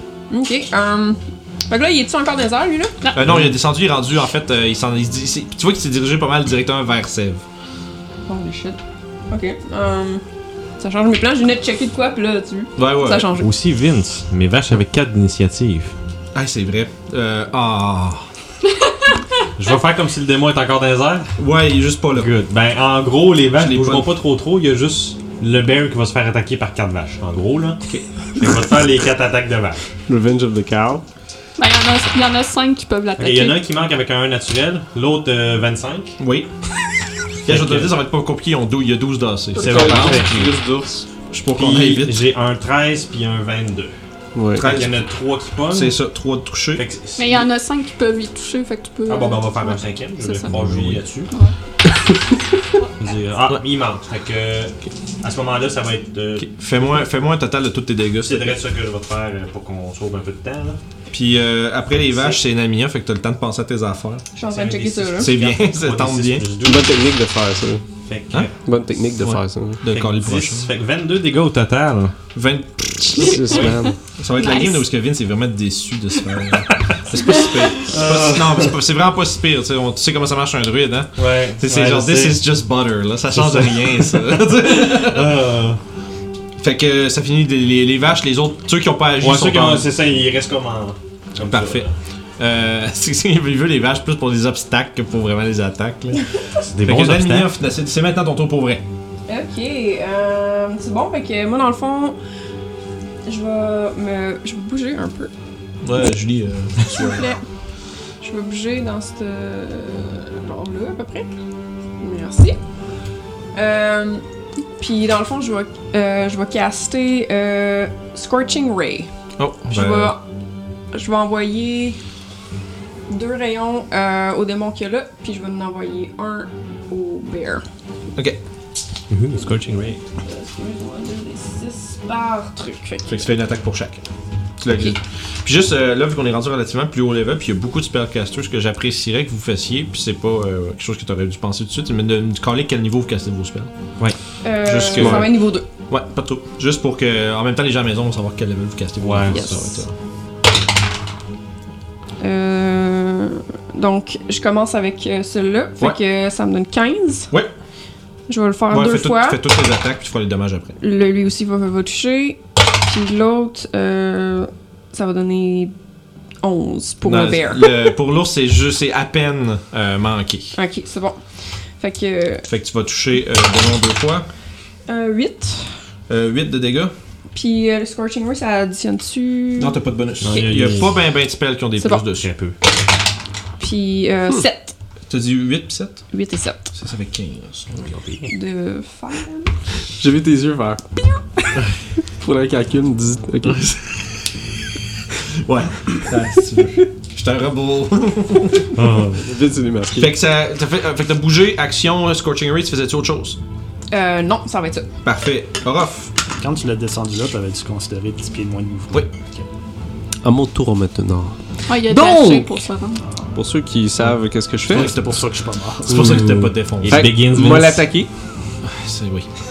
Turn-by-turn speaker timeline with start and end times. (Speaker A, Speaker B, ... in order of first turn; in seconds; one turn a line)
Speaker A: 0.3-3.0
Speaker B: 3.1-7.4
Speaker C: 3.3-3.5
Speaker A: 8.3-8.8
Speaker A: 9.3-10.2
Speaker A: 10.8-13.5
Speaker B: 12.8-13.3
Speaker C: 13.4-15.9
Speaker B: 16.3-18.2
Speaker C: 19.6-21.3
Speaker B: 21.4-22.3
Speaker C: 22.1-27.8
Speaker B: 23.6-24.1
Speaker C: 28.4-29.9
Speaker D: 30.1-31.0
Speaker E: 31.6-33.6
Speaker C: 33.2-36.2
Speaker B: 36.2-36.5
Speaker C: 37.5-38.0
Speaker B: 37.5-40.6
Speaker C: 39.6-40.5
Speaker D: 39.6-41.0
Speaker B: 41.3-42.2
Speaker C: 41.6-43.9
Speaker D: 44.4-44.7
Speaker B: 44.5-45.0
Speaker C: 44.6-46.0
Speaker B: 45.7-46.9
Speaker C: 46.8-47.5
Speaker E: 47.2-50.5
Speaker C: 49.1-51.3
Speaker B: 50.5-51.0
Speaker E: 52.8-53.0
Speaker C: 53.0-56.5
Speaker B: 56.4-58.6
Speaker C: 58.2-60.8
Speaker B: 61.1-64.2
Speaker A: 64.3-65.3
Speaker C: 64.5-67.0
Speaker B: 65.2-66.5
Speaker D: 66.6-67.8
Speaker C: 68.0-68.6
Speaker D: 68.6-69.8
Speaker B: 69.2-70.7
Speaker C: 69.9-72.2
Speaker B: 72.3-85.4
Speaker D: 73.2-74.0
Speaker E: 74.4-74.8
Speaker C: 77.8-78.7
Speaker C: 81.2-82.5
Speaker C: 83.3-85.8
Speaker B: 86.6-89.9
Speaker C: 89.2-91.9
Speaker B: 91.5-96.2
Speaker C: 96.7-97.5
Speaker B: 96.8-98.8
Speaker A: 99.3-102.2
Speaker A: 103.3-105.3
Speaker B: 105.8-107.3
Speaker A: 106.8-107.4
Speaker A: 108.2-111.3
Speaker A: 112.0-112.6
Speaker A: 113.5-114.2
Speaker A: 114.8-119.1
Speaker B: 119.4-120.2
Speaker A: 119.7-120.2
Speaker A: 120.9-122.0
Speaker A: 123.1-127.6
Speaker C: 129.1-130.0
Speaker A: 130.2-133.3
Speaker B: 133.1-134.0
Speaker B: 134.6-143.7
Speaker A: 134.7-135.0
Speaker A: 144.4-145.7
Speaker B: 144.6-149.9
Speaker D: 145.0-145.3
Speaker C: 149.0-149.7
Speaker A: 149.3-149.9
Speaker A: 152.2-157.3
Speaker A: 158.3-159.4
Speaker B: 158.7-160.8
Speaker A: 160.8-165.7
Speaker A: 166.4-167.7
Speaker B: 167.0-170.6
Speaker A: 170.6-171.2
Speaker A: 171.8-172.5
Speaker B: 172.5-174.3
Speaker A: 174.9-175.7
Speaker B: 176.1-176.9
Speaker A: 177.3-179.8
Speaker B: 179.6-182.3
Speaker C: 180.2-180.9
Speaker C: 182.2-182.6
Speaker A: 183.6-184.7
Speaker B: 185.1-186.1
Speaker A: 186.1-186.6
Speaker B: 186.7-187.9
Speaker C: 187.8-188.3
Speaker A: 188.3-189.5
Speaker D: 190.0-190.8
Speaker D: 192.2-193.7
Speaker B: 193.4-194.2
Speaker B: 195.4-198.8
Speaker C: 198.8-199.2
Speaker D: 199.2-200.2
Speaker B: 200.0-203.4
Speaker A: 203.9-204.9
Speaker B: 205.0-206.1
Speaker F: 206.4-209.5
Speaker D: 210.2-212.7
Speaker E: 211.7-213.0
Speaker D: 213.3-215.0
Speaker B: 214.7-215.3
Speaker F: 214.7-216.2
Speaker B: 215.8-217.1
Speaker C: 215.9-217.8
Speaker D: 216.8-218.1
Speaker B: 218.6-219.3